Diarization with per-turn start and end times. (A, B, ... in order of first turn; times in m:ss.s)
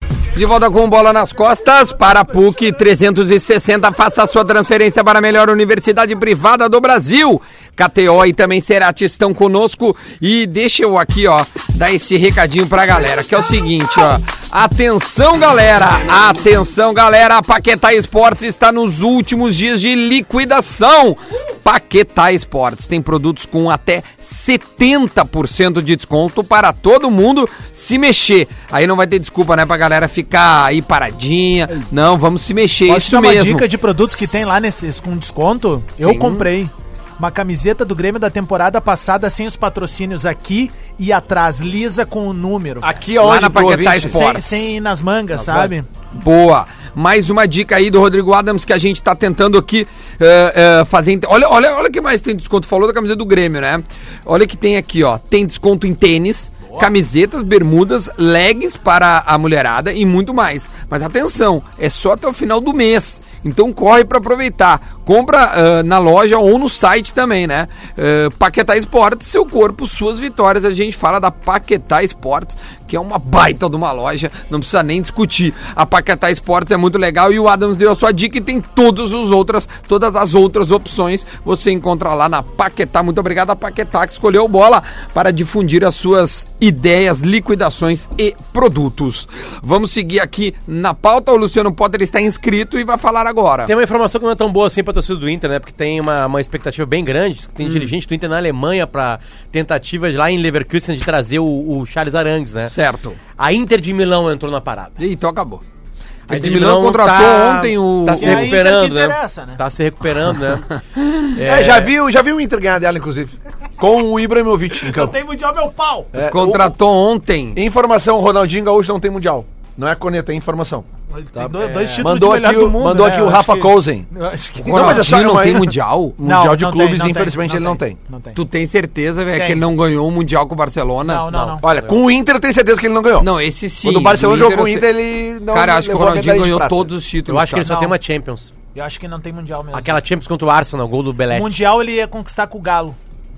0:00.3-0:33.7 A
0:32.9-0:43.0 B
0:36.0-0:36.5 A
0:42.8-0:44.2 C
0:43.2-0:44.7 A
0:43.9-0:45.9 B
0:46.1-1:33.7 A
1:33.7-1:42.7 D
1:37.6-1:37.9 A
1:42.7-1:43.2 A
1:43.4-1:45.0 D
1:45.0-1:45.6 A
1:46.3-1:48.5 A
1:46.3-1:50.8 D
1:48.1-1:49.6 B
1:51.0-1:51.2 A
1:51.3-1:51.9 D
1:51.4-1:55.2 C
1:54.8-1:56.1 B
1:56.1-1:56.8 C
1:56.2-1:57.6 A
1:57.6-2:04.1 C
2:01.1-2:05.2 B
2:01.6-2:02.1 D
2:04.6-2:08.0 C
2:04.6-2:06.2 A
2:06.2-2:08.4 B
2:08.3-2:11.3 A
2:09.3-2:09.7 B
2:11.0-2:11.7 B
2:11.3-2:12.0 D
2:11.6-2:13.3 C
2:13.2-2:14.9 A
2:13.8-2:16.9 C
2:15.5-2:17.7 A
2:17.3-2:18.5 D
2:17.6-2:18.0 B
2:18.7-2:20.0 B
2:19.7-2:21.6 D
2:21.3-2:23.0 B